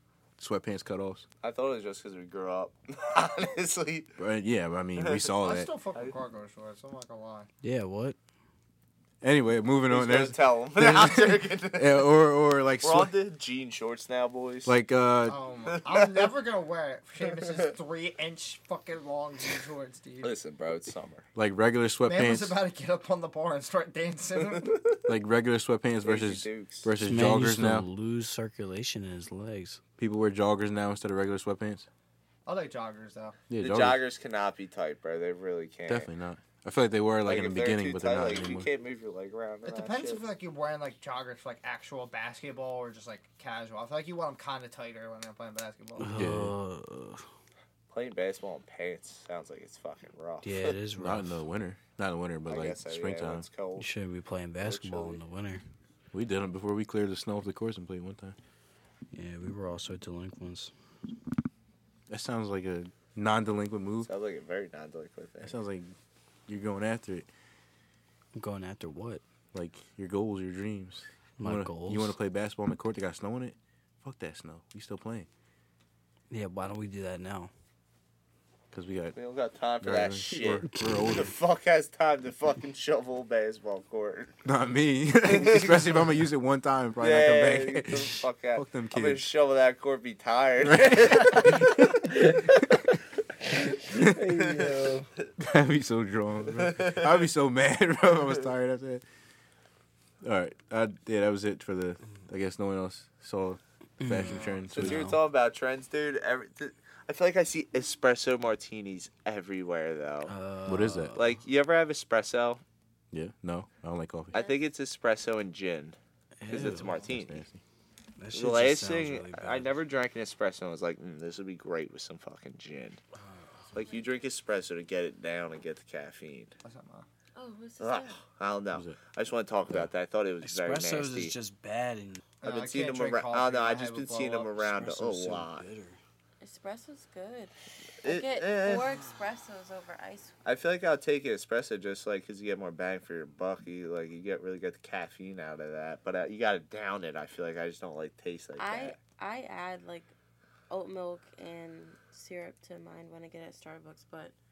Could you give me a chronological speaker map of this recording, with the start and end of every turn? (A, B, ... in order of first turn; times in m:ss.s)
0:00.4-0:01.2 A
0:01.4-0:04.1 B
0:04.2-0:05.7 A
0:05.0-0:05.3 B
0:05.4-0:07.5 C
0:07.6-0:08.2 D
0:09.2-0:13.1 A
0:09.9-0:12.0 B
0:12.8-0:14.7 B
0:14.6-0:15.4 A
0:15.3-0:20.3 C
0:15.7-0:16.3 B
0:20.2-0:21.2 B
0:21.4-0:22.6 A
0:22.0-0:24.8 C
0:24.6-0:25.0 B
0:25.1-0:27.8 A
0:26.0-0:26.9 B
0:27.0-0:29.8 D
0:30.0-0:31.9 A
0:32.4-0:33.4 C
0:33.5-0:34.0 A
0:33.6-0:36.1 B
0:35.9-0:38.7 A
0:37.2-0:40.2 B
0:39.6-0:46.2 C
0:46.0-0:47.2 D
0:46.1-0:46.5 A
0:47.9-0:50.8 B
0:50.4-0:51.4 D
0:51.0-0:53.4 A
0:52.4-0:53.9 B
0:53.8-0:55.6 D
0:54.6-0:55.2 B
0:56.1-0:58.4 A
0:59.1-1:00.7 D
1:02.1-1:04.1 A
1:04.0-1:05.6 B
1:05.4-1:05.9 A
1:06.5-1:07.3 A
1:08.3-1:09.2 D
1:09.5-1:15.3 A
1:11.4-1:12.1 D
1:16.3-1:17.5 D
1:18.7-1:19.2 A
1:19.1-1:24.4 B
1:19.8-1:21.3 A
1:24.4-1:29.2 A
1:25.3-1:25.7 B
1:27.0-1:32.6 B
1:30.6-1:32.8 A
1:33.8-1:35.1 D
1:34.3-1:34.9 B
1:35.4-1:39.0 A
1:36.7-1:37.0 B
1:40.2-1:45.2 A
1:44.0-1:45.2 D
1:44.2-1:44.6 C
1:44.7-1:50.3 B
1:50.2-1:51.3 D
1:50.6-1:51.1 A
1:51.1-1:52.6 B
1:53.1-1:54.4 A
1:54.3-1:54.6 E
1:54.3-1:56.0 B
1:56.4-1:57.0 D
1:56.5-1:57.4 B
1:56.6-1:57.6 A
1:58.2-1:59.8 D
1:58.3-2:03.0 B
2:03.2-2:03.7 D
2:03.7-2:06.5 B
2:03.8-2:04.2 E
2:06.6-2:07.0 C
2:07.4-2:08.2 E
2:07.8-2:11.3 B
2:08.7-2:09.0 A
2:10.4-2:12.2 D
2:12.4-2:14.5 C
2:12.4-2:15.7 B
2:14.6-2:16.0 D
2:16.4-2:20.4 E
2:18.0-2:18.9 B
2:20.4-2:29.0 B
2:28.6-2:30.1 E
2:30.7-2:34.3 E